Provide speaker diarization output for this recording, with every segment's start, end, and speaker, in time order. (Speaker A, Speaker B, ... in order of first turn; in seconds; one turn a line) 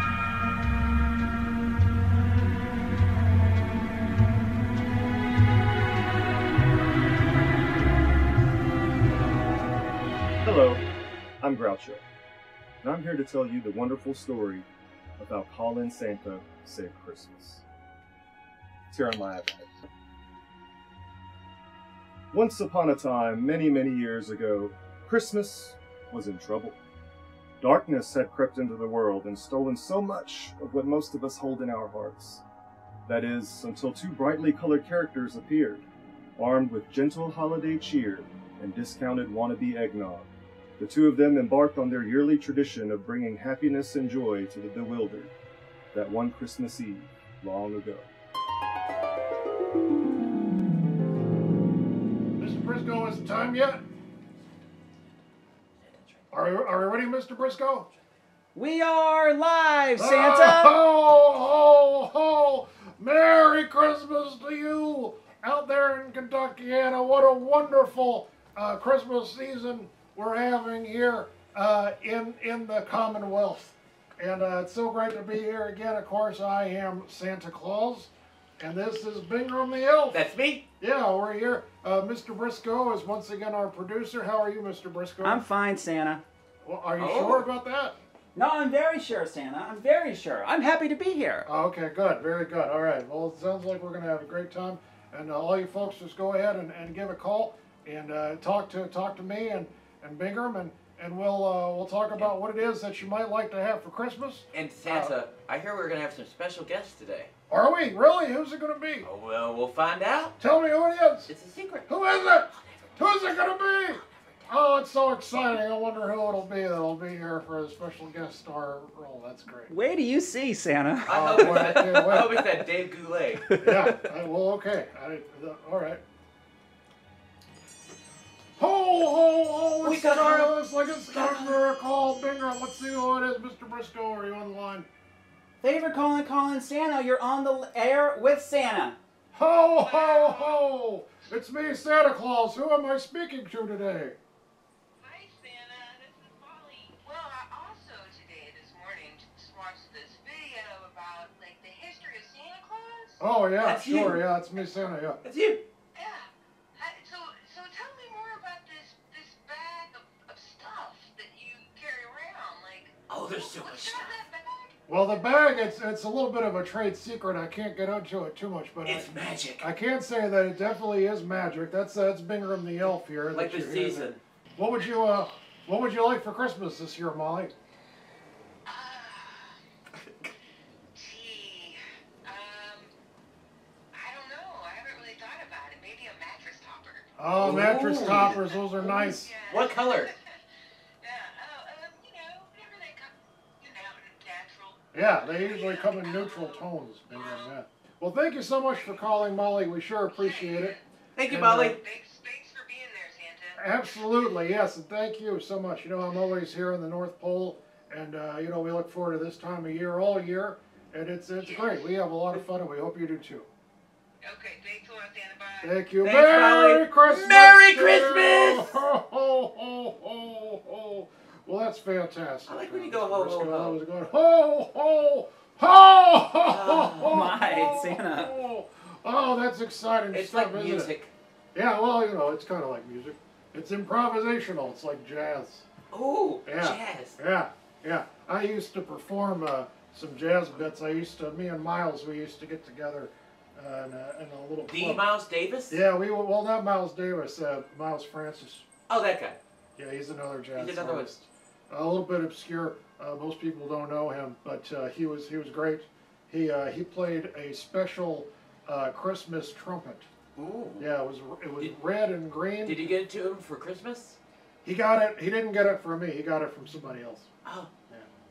Speaker A: 10.4-10.8
Speaker A: 11.4-12.0
Speaker A: 12.8-14.7
Speaker A: 15.2-17.6
Speaker A: 18.9-19.7
Speaker A: 22.3-26.8
Speaker A: 27.6-32.4
Speaker A: 33.0-35.9
Speaker A: 36.4-45.3
Speaker A: 45.9-48.1
Speaker B: 52.4-53.8
Speaker C: 55.8-56.2
Speaker B: 56.3-57.9
Speaker D: 58.5-60.7
Speaker B: 60.0-80.2
Speaker C: 80.1-80.6
Speaker B: 80.8-85.4
Speaker D: 85.2-86.2
Speaker B: 86.6-88.0
Speaker C: 87.0-87.4
Speaker D: 88.3-91.5
Speaker B: 91.5-105.1
Speaker C: 104.5-107.3
Speaker B: 107.5-109.1
Speaker C: 109.0-110.3
Speaker B: 110.4-111.3
Speaker C: 111.3-112.5
Speaker B: 111.9-119.7
Speaker D: 119.7-121.7
Speaker C: 121.0-123.5
Speaker B: 121.1-122.5
Speaker D: 123.5-124.0
Speaker B: 123.6-126.0
Speaker B: 128.6-134.9
Speaker C: 129.8-130.5
Speaker D: 135.6-139.0
Speaker B: 139.3-144.2
Speaker E: 139.7-140.6
Speaker E: 145.0-153.2
Speaker B: 153.2-155.2
Speaker C: 153.6-154.2
Speaker C: 155.2-155.6
Speaker E: 155.9-162.9
Speaker C: 163.1-164.1
Speaker E: 163.4-164.7
Speaker B: 164.9-177.5
Speaker C: 168.8-169.7
Speaker C: 173.3-174.2
Speaker E: 174.8-175.3
Speaker E: 178.7-179.6
Speaker E: 180.9-182.9
Speaker E: 183.9-187.1
Speaker B: 187.2-189.3
Speaker C: 187.4-188.4
Speaker E: 188.4-190.3
Speaker C: 189.5-190.1
Speaker E: 191.0-197.5
Speaker B: 194.9-200.8
Speaker E: 200.1-200.8
Speaker C: 201.2-201.8
Speaker B: 201.3-201.8
Speaker E: 201.7-203.6
Speaker B: 203.5-213.5
Speaker E: 211.4-211.9
Speaker E: 214.2-215.7
Speaker B: 215.6-230.9
Speaker C: 216.0-218.8
Speaker C: 222.5-223.8
Speaker C: 226.5-227.2
Speaker D: 227.0-228.3
Speaker C: 230.1-231.1
Speaker B: 231.5-235.7
Speaker C: 235.9-237.2
Speaker B: 236.4-245.0
Speaker C: 244.7-245.8
Speaker B: 245.7-248.7
Speaker C: 248.9-249.4
Speaker B: 249.8-260.1
Speaker C: 250.6-251.1
Speaker C: 260.4-260.9
Speaker B: 260.8-262.9
Speaker C: 262.6-264.2
Speaker B: 264.6-267.3
Speaker C: 267.4-267.7